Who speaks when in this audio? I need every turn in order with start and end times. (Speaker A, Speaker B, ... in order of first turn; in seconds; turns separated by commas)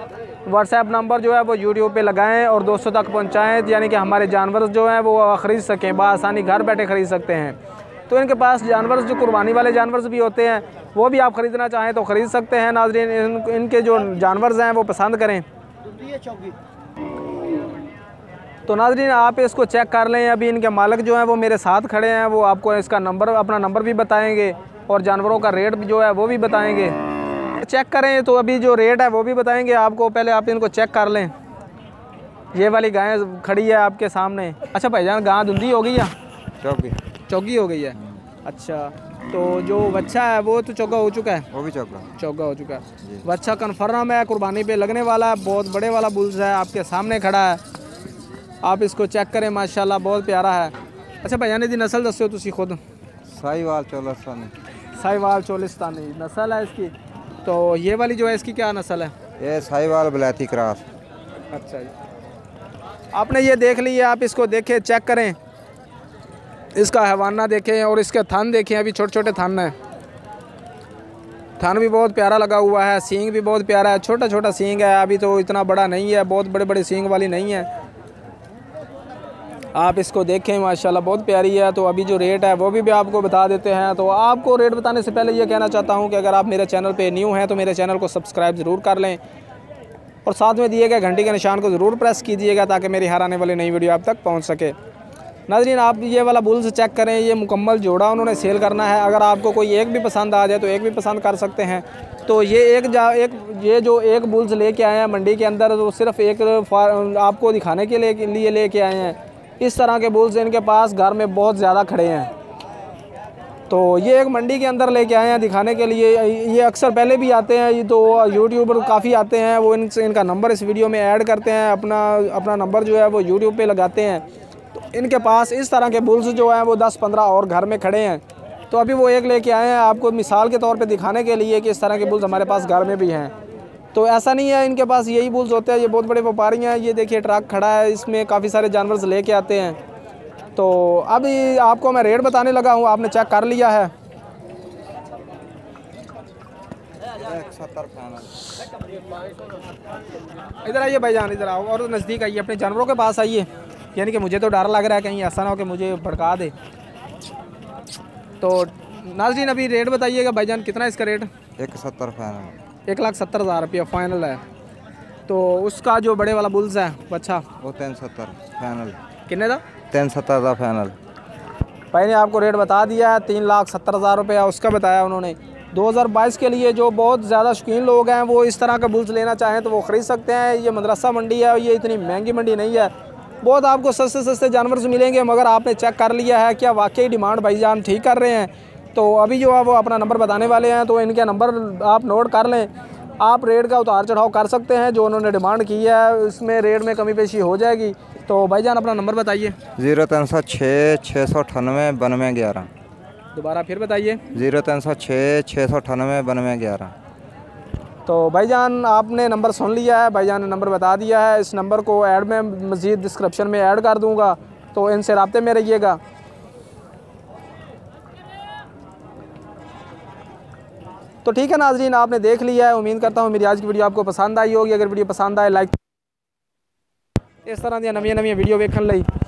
Speaker A: 0.5-7.6, Speaker A: 8.1-15.4, Speaker A: 18.6-27.0, Speaker A: 27.5-31.3, Speaker A: 32.5-36.1, Speaker B: 36.6-37.0, Speaker A: 37.3-41.5, Speaker B: 41.5-42.1, Speaker A: 42.2-47.6, Speaker A: 48.6-52.8, Speaker B: 53.2-54.5, Speaker A: 55.0-56.9, Speaker A: 57.4-59.1, Speaker B: 59.4-60.9, Speaker A: 61.5-61.9, Speaker A: 63.1-65.3, Speaker A: 66.7-69.7, Speaker A: 71.6-77.7, Speaker A: 79.7-89.2, Speaker A: 90.2-94.7, Speaker A: 95.5-112.3, Speaker A: 113.7-124.2, Speaker A: 124.7-133.3, Speaker A: 133.9-139.8, Speaker A: 140.6-143.9, Speaker B: 147.1-148.5, Speaker A: 150.6-156.5, Speaker A: 158.4-161.3, Speaker B: 161.6-162.6, Speaker A: 162.9-164.4, Speaker A: 165.3-167.4, Speaker B: 167.6-169.0, Speaker A: 169.3-169.6, Speaker B: 169.9-170.9, Speaker A: 171.9-199.6, Speaker B: 199.8-202.7, Speaker A: 203.3-204.2, Speaker B: 204.3-206.9, Speaker A: 208.1-216.0, Speaker A: 221.2-225.8, Speaker A: 227.4-229.1